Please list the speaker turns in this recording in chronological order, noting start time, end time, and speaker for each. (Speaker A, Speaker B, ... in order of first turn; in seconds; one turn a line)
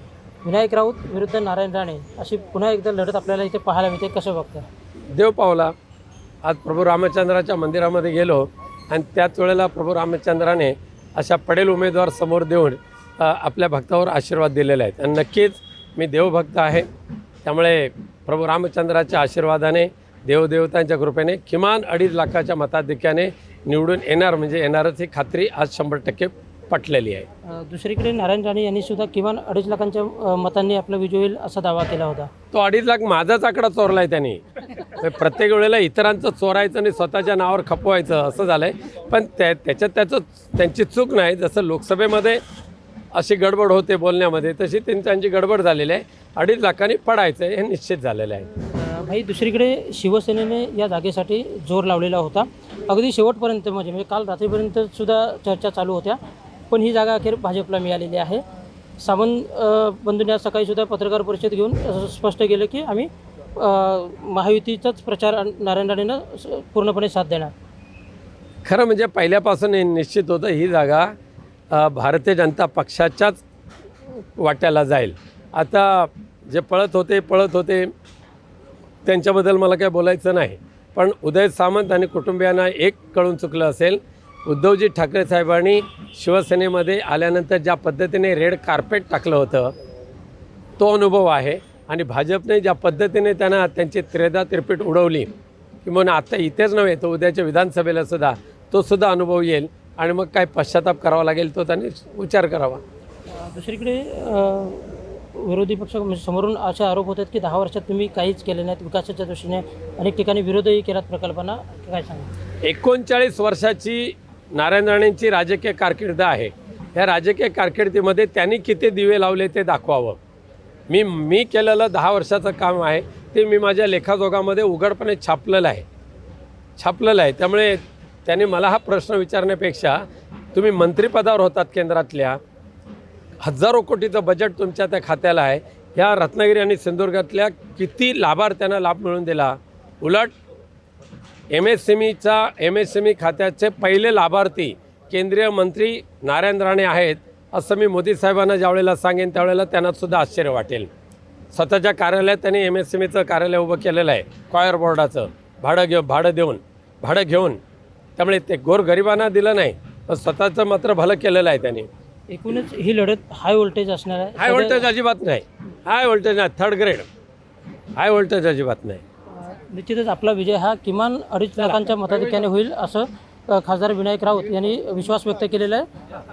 Speaker A: 0.4-4.7
Speaker B: 5.1-5.7
Speaker B: 6.4-16.9
Speaker B: 17.4-27.3
Speaker A: 27.5-32.3
Speaker B: 32.5-42.4
Speaker B: 43.1-48.5
Speaker A: 48.7-56.2
Speaker A: 56.7-58.4
Speaker A: 59.0-67.5
Speaker B: 68.7-71.1
Speaker B: 71.7-73.4
Speaker B: 74.4-77.9
Speaker B: 79.0-89.7
Speaker B: 90.8-95.3
Speaker B: 95.8-102.8
Speaker A: 103.3-112.3
Speaker B: 112.7-120.2
Speaker B: 120.9-125.9
Speaker B: 126.8-130.0
Speaker B: 130.5-132.4
Speaker B: 133.4-140.3
Speaker B: 141.5-150.9
Speaker B: 151.5-157.6
Speaker B: 158.2-161.9
Speaker A: 162.3-164.8
Speaker B: 164.4-167.1
Speaker B: 168.0-169.0
Speaker A: 169.3-175.9